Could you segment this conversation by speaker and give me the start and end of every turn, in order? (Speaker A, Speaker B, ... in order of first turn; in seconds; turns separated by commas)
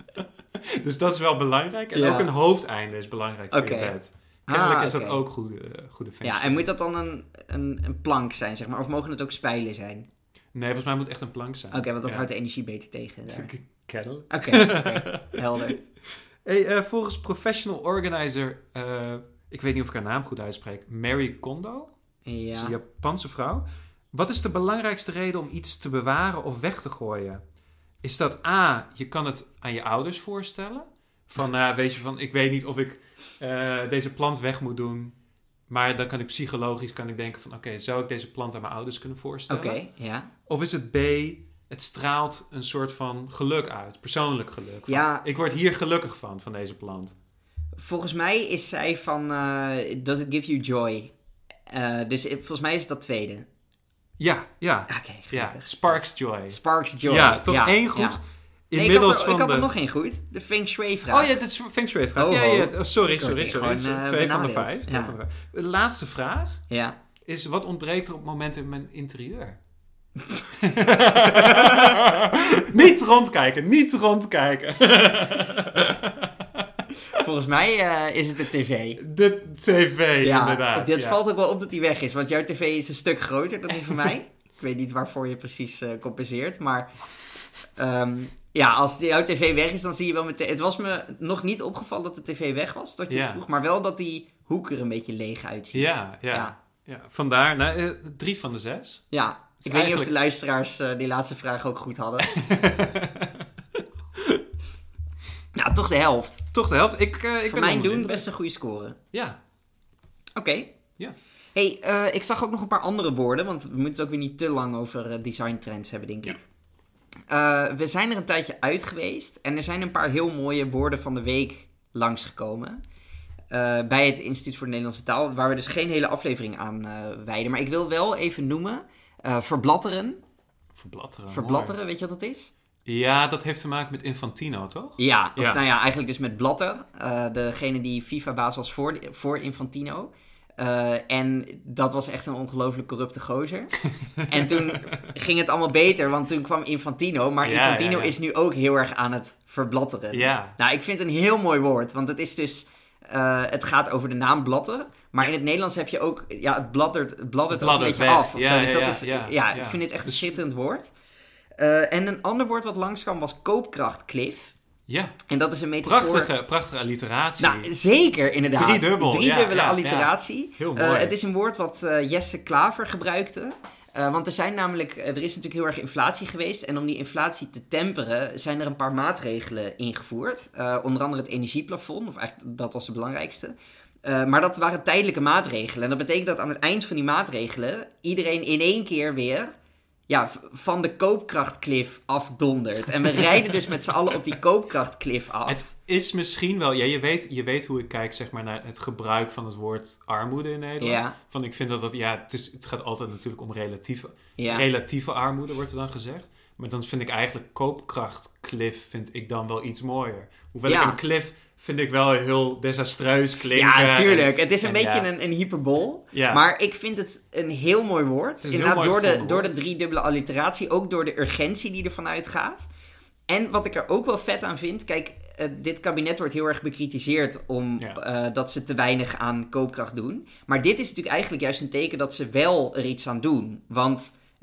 Speaker A: 0.6-6.7, Speaker B: 1.9-2.3, Speaker B: 3.5-3.9, Speaker B: 4.5-5.2, Speaker B: 6.2-10.1, Speaker A: 10.5-12.3, Speaker B: 11.7-13.5, Speaker A: 13.3-15.8, Speaker B: 14.3-15.8, Speaker A: 16.4-21.9, Speaker B: 22.2-22.8, Speaker A: 22.5-27.4, Speaker A: 28.0-35.1, Speaker A: 35.7-39.8, Speaker B: 39.5-40.3, Speaker A: 40.5-47.1, Speaker B: 44.9-45.2, Speaker B: 47.8-51.1, Speaker B: 51.7-53.5, Speaker A: 54.2-59.7, Speaker B: 54.9-58.2, Speaker B: 58.7-61.3, Speaker A: 61.1-66.6, Speaker B: 62.1-65.1, Speaker B: 66.7-67.0, Speaker A: 67.2-69.6, Speaker A: 70.5-77.2, Speaker B: 71.3-72.0, Speaker B: 77.1-79.0, Speaker A: 79.0-81.2, Speaker B: 80.2-86.9, Speaker B: 87.8-96.5, Speaker A: 93.1-93.4, Speaker A: 95.7-99.0, Speaker B: 99.1-102.3, Speaker A: 99.6-100.1, Speaker A: 102.2-103.5, Speaker A: 104.2-104.4, Speaker B: 105.5-106.4, Speaker A: 106.5-108.2, Speaker B: 107.5-109.0, Speaker B: 110.3-110.7, Speaker B: 111.5-116.4, Speaker B: 117.3-122.8, Speaker B: 123.5-130.2, Speaker A: 130.8-131.7, Speaker B: 131.3-132.5, Speaker A: 132.8-135.6, Speaker B: 135.0-143.7, Speaker A: 143.9-145.1, Speaker B: 144.3-160.9, Speaker A: 147.4-148.2, Speaker A: 150.1-150.6, Speaker A: 157.5-160.3, Speaker B: 161.6-164.5, Speaker A: 164.9-165.2, Speaker B: 165.3-166.3, Speaker A: 165.8-167.7, Speaker B: 167.4-189.5, Speaker A: 168.5-171.2, Speaker B: 190.1-195.7, Speaker A: 193.0-193.8, Speaker A: 195.5-215.1, Speaker B: 200.8-201.1, Speaker B: 204.4-204.6, Speaker B: 210.7-211.0, Speaker B: 213.5-222.7, Speaker A: 216.1-216.4, Speaker A: 218.4-219.6, Speaker B: 223.3-234.1